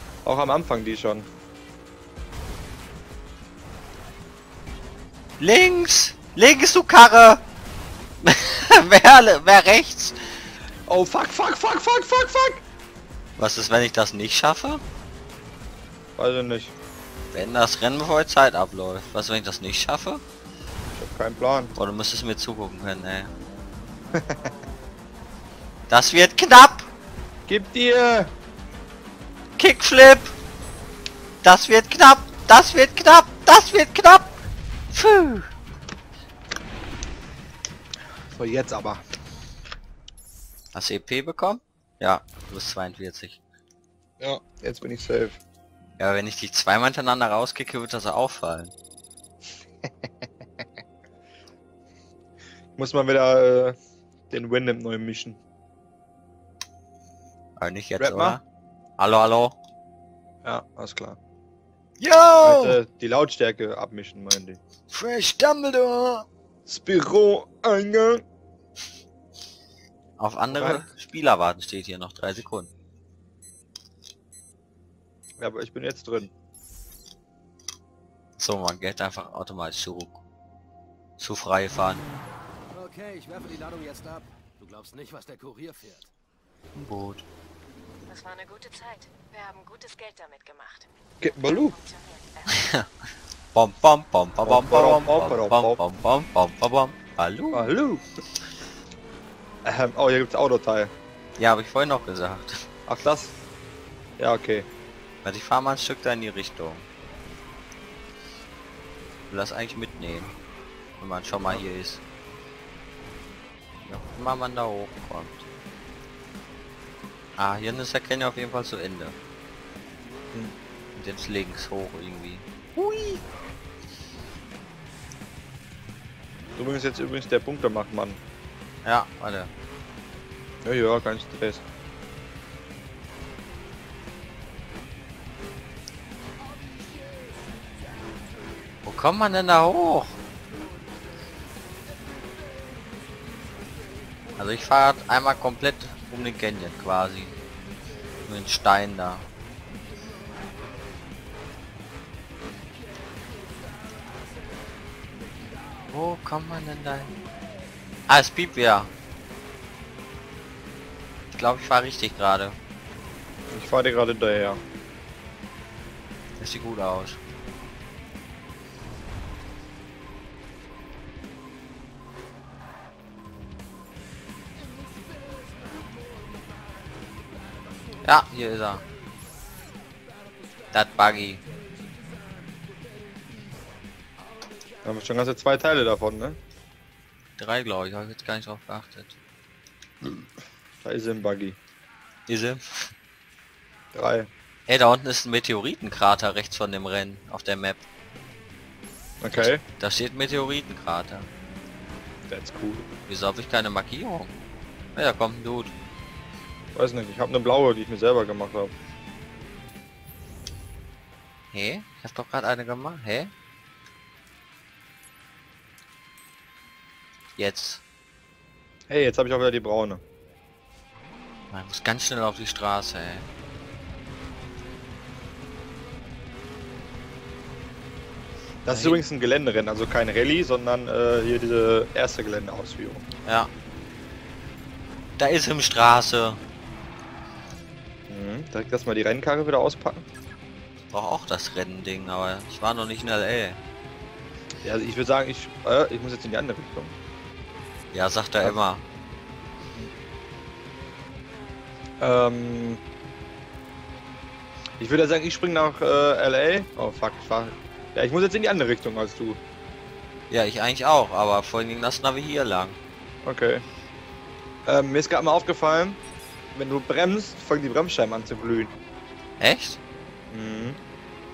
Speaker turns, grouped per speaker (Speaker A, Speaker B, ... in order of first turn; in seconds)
Speaker A: 0.2-1.3, 10.9-12.6, 16.2-16.7, 20.9-21.7, 24.1-24.5, 27.5-28.3, 38.3-39.0, 44.2-45.4, 52.8-53.8, 54.3-55.4, 58.0-58.4, 60.4-61.2, 62.4-64.6, 66.7-68.2, 70.5-70.9, 75.4-76.3, 91.2-91.8, 94.5-95.8, 97.5-98.0, 99.7-100.9, 102.9-103.3, 104.2-104.7, 126.6-128.2, 130.6-131.6, 163.5-164.6, 184.8-186.4, 190.0-191.6, 193.9-194.3, 199.2-199.6, 202.3-202.9, 206.8-208.7, 218.9-220.0, 228.7-233.0, 238.1-240.1, 244.6-246.9, 252.0-252.8, 254.8-259.4, 263.2-263.6, 264.7-266.0, 266.5-268.7, 270.3-270.8
Speaker B: 5.4-7.4, 8.2-10.4, 13.4-14.8, 17.3-20.2, 21.8-23.3, 25.9-26.9, 29.6-30.3, 31.4-34.4, 34.9-35.5, 40.7-43.4, 46.0-48.7, 57.6-58.4, 59.0-59.5, 62.0-62.8, 64.9-66.3, 70.2-72.7, 78.4-80.2, 81.2-82.0, 86.8-87.2, 92.5-92.9, 93.5-97.7, 101.4-102.7, 105.2-106.8, 109.3-110.3, 111.0-112.0, 113.8-115.5, 117.4-119.2, 121.0-123.2, 128.8-129.5, 138.8-140.2, 144.4-147.4, 148.3-149.2, 155.9-157.2, 158.1-158.9, 161.3-162.6, 166.4-167.2, 178.0-178.8, 180.7-181.4, 187.4-189.2, 192.3-192.9, 194.7-197.8, 199.7-201.3, 203.1-204.3, 204.9-205.7, 211.5-213.3, 217.4-217.8, 221.5-223.3, 228.7-229.0, 233.2-233.5, 235.2-236.4, 240.9-243.6, 247.9-248.8, 260.3-262.8, 269.4-269.8
Speaker C: 82.7-86.1
Speaker D: 88.1-90.9, 91.4-92.7